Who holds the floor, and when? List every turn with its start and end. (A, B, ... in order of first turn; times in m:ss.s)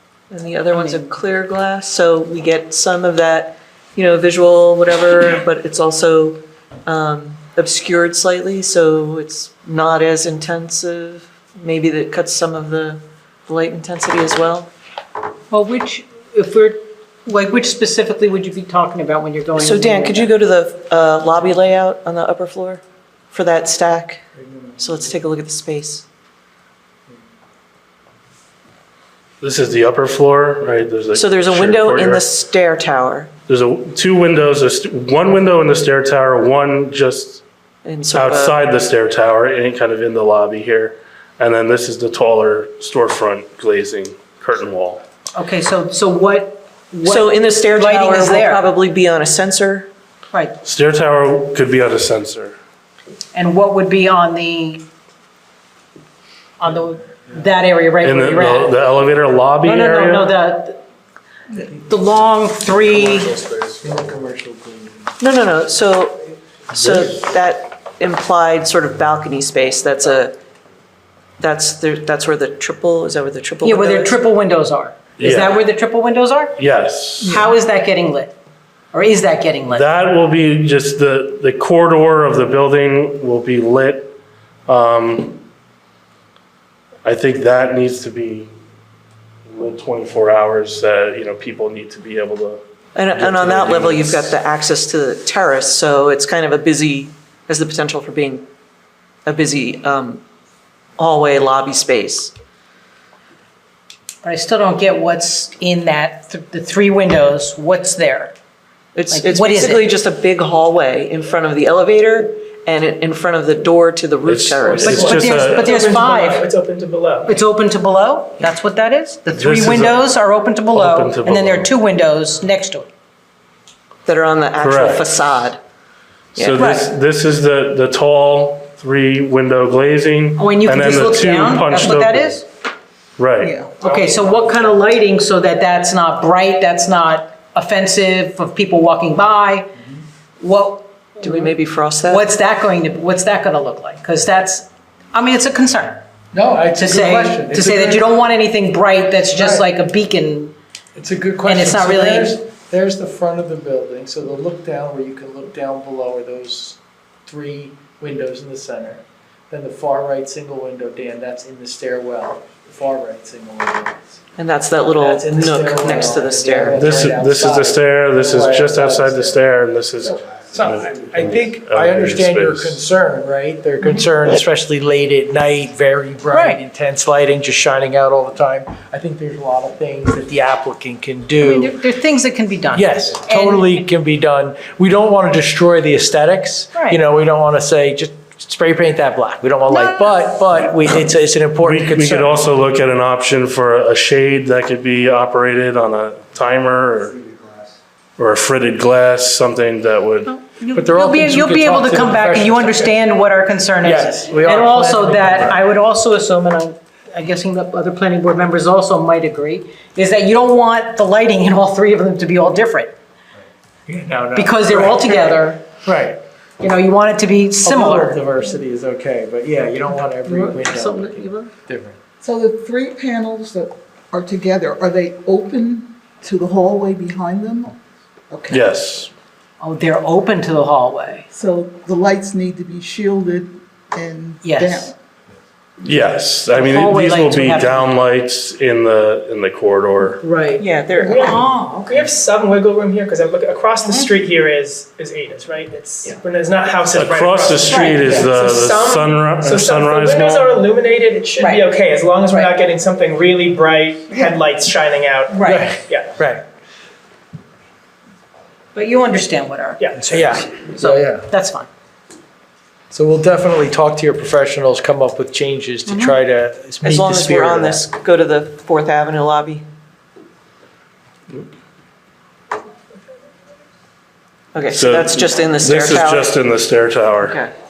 0:00.3-0:14.7 A
0:15.5-0:20.3 B
0:19.6-0:24.2 A
0:24.4-0:25.1 C
0:24.8-0:26.0 A
0:29.4-0:32.2 D
0:31.1-0:33.3 A
0:33.5-0:37.4 D
0:37.8-0:38.6 A
0:38.1-0:45.0 D
0:45.3-0:48.7 B
0:47.0-0:49.9 A
0:50.3-0:50.6 B
0:50.6-0:52.6 D
0:53.3-0:54.9 B
0:56.6-0:58.8 B
0:58.0-1:00.3 D
0:59.6-1:00.8 B
1:01.6-1:03.4 B
1:02.9-1:05.1 C
1:05.2-1:10.4 A
1:06.8-1:07.1 D
1:11.4-1:14.2 A
1:13.6-1:16.6 B
1:15.2-1:15.6 D
1:16.6-1:17.4 D
1:17.2-1:18.3 B
1:18.9-1:19.9 B
1:19.7-1:24.1 D
1:24.7-1:25.4 D
1:27.0-1:28.5 D
1:29.5-1:32.6 D
1:32.9-1:38.4 A
1:33.1-1:34.3 D
1:39.2-1:40.2 A
1:41.0-1:42.3 A
1:44.2-1:48.3 B
1:48.9-1:55.2 A
1:49.1-1:49.9 B
1:54.2-1:55.7 D
1:54.6-1:57.3 E
1:54.8-1:56.5 B
1:57.2-2:02.9 B
1:59.3-2:00.0 D
2:00.7-2:01.7 D
2:04.0-2:05.6 A
2:04.6-2:05.1 D
2:06.4-2:06.6 A
2:06.4-2:12.4 D
2:06.5-2:06.9 B
2:10.4-2:12.5 B
2:13.2-2:13.5 D
2:13.4-2:13.7 F
2:13.8-2:19.7 B
2:13.8-2:14.7 E
2:20.4-2:26.0 B
2:21.2-2:22.3 A
2:26.3-2:28.1 C
2:26.7-2:30.6 B
2:29.3-2:29.7 C
2:30.9-2:44.2 C
2:31.4-2:32.5 B
2:44.4-2:47.1 A
2:44.9-2:49.4 C
2:46.7-2:52.8 D
2:50.3-3:01.8 C
2:56.3-2:56.6 B
3:01.4-3:03.9 B
3:02.7-3:12.5 C
3:06.7-3:07.0 B
3:09.7-3:10.3 B
3:11.6-3:17.2 D
3:18.2-3:20.3 D
3:20.2-3:32.9 B
3:20.7-3:23.0 C
3:23.8-3:25.6 C
3:33.9-3:36.2 C
3:34.3-3:35.6 B
3:36.6-3:38.2 B
3:37.6-3:42.0 C
3:40.2-3:41.5 B
3:42.2-3:47.8 F
3:48.3-3:48.6 F
3:48.5-3:49.1 D
3:49.6-3:51.3 B
3:51.3-3:54.9 F
3:54.4-3:54.9 B
3:55.8-4:00.2 D
3:56.5-3:58.0 B
4:00.2-4:01.9 B
4:00.6-4:01.4 A
4:01.1-4:16.1 E
4:03.8-4:04.1 B
4:06.9-4:10.7 D
4:11.4-4:11.7 B
4:12.3-4:12.5 B
4:15.3-4:15.7 B
4:15.4-4:16.4 C
4:18.7-4:21.7 B
4:19.8-4:20.2 E
4:19.9-4:21.3 C
4:22.9-4:27.8 C
4:26.8-4:29.6 A
4:34.5-4:36.3 A
4:34.7-4:37.4 D
4:37.2-4:37.5 A